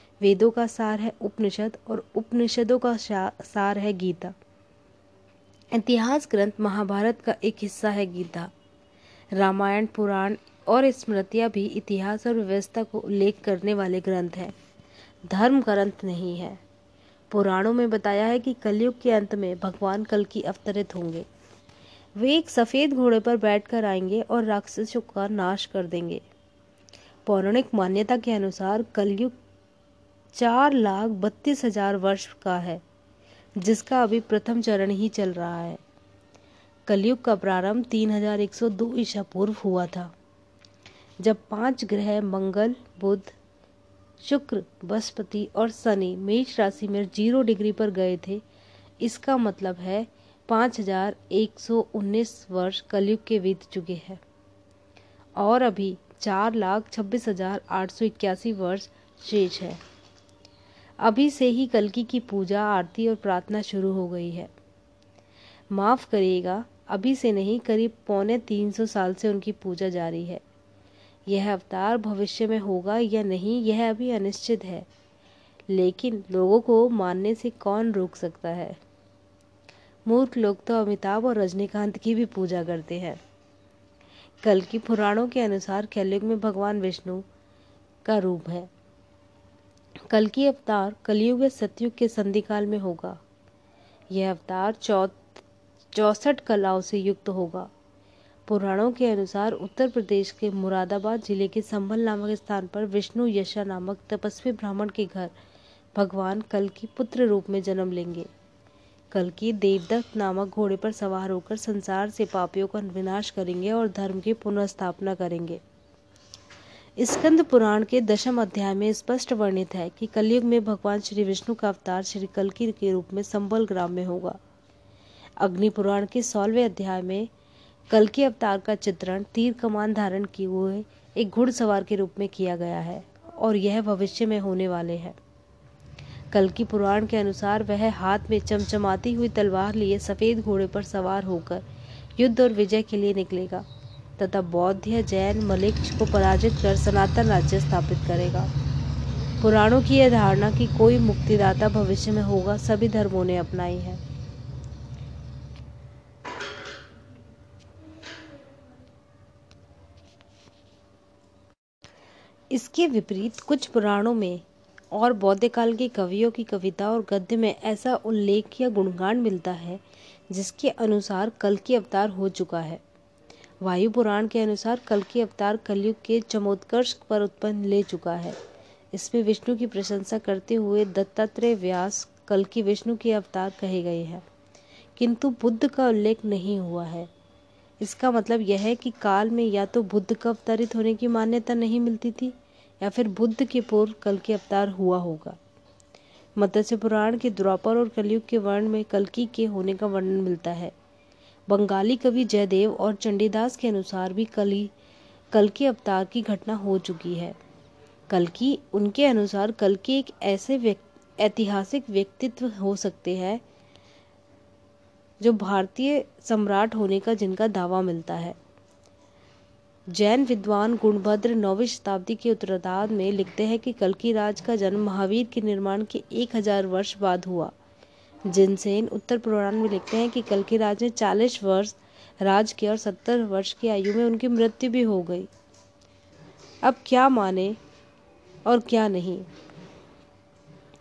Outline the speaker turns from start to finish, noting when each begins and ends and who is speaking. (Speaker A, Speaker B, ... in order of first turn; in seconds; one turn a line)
Speaker A: 0.2-4.3
Speaker A: 5.7-8.5
Speaker A: 9.3-14.6
Speaker A: 15.3-16.6
Speaker A: 17.3-21.3
Speaker A: 22.2-26.2
Speaker A: 27.3-29.3
Speaker A: 30.3-32.8
Speaker A: 33.6-35.8
Speaker A: 36.9-40.1
Speaker A: 41.2-43.4
Speaker A: 44.2-48.4
Speaker A: 49.0-54.2
Speaker A: 55.4-59.8
Speaker A: 61.0-64.5
Speaker A: 65.7-70.4
Speaker A: 71.3-74.9
Speaker A: 75.7-78.8
Speaker A: 80.1-83.2
Speaker A: 84.4-87.3
Speaker A: 88.0-88.7
Speaker A: 90.1-93.2
Speaker A: 94.1-95.2
Speaker A: 95.9-97.7
Speaker A: 98.5-105.3
Speaker A: 106.0-108.3
Speaker A: 109.1-115.6
Speaker A: 117.0-124.4
Speaker A: 125.4-127.3
Speaker A: 127.9-135.2
Speaker A: 136.3-141.7
Speaker A: 142.2-143.7
Speaker A: 144.2-148.5
Speaker A: 149.4-154.0
Speaker A: 162.5-172.8
Speaker A: 173.6-178.4
Speaker A: 178.9-184.2
Speaker A: 185.0-187.1
Speaker A: 187.8-195.4
Speaker A: 196.4-200.7
Speaker A: 201.5-204.7
Speaker A: 205.3-207.4
Speaker A: 208.1-213.4
Speaker A: 215.2-218.4
Speaker A: 219.9-227.5
Speaker A: 228.3-235.3
Speaker A: 236.6-237.6
Speaker A: 238.4-239.3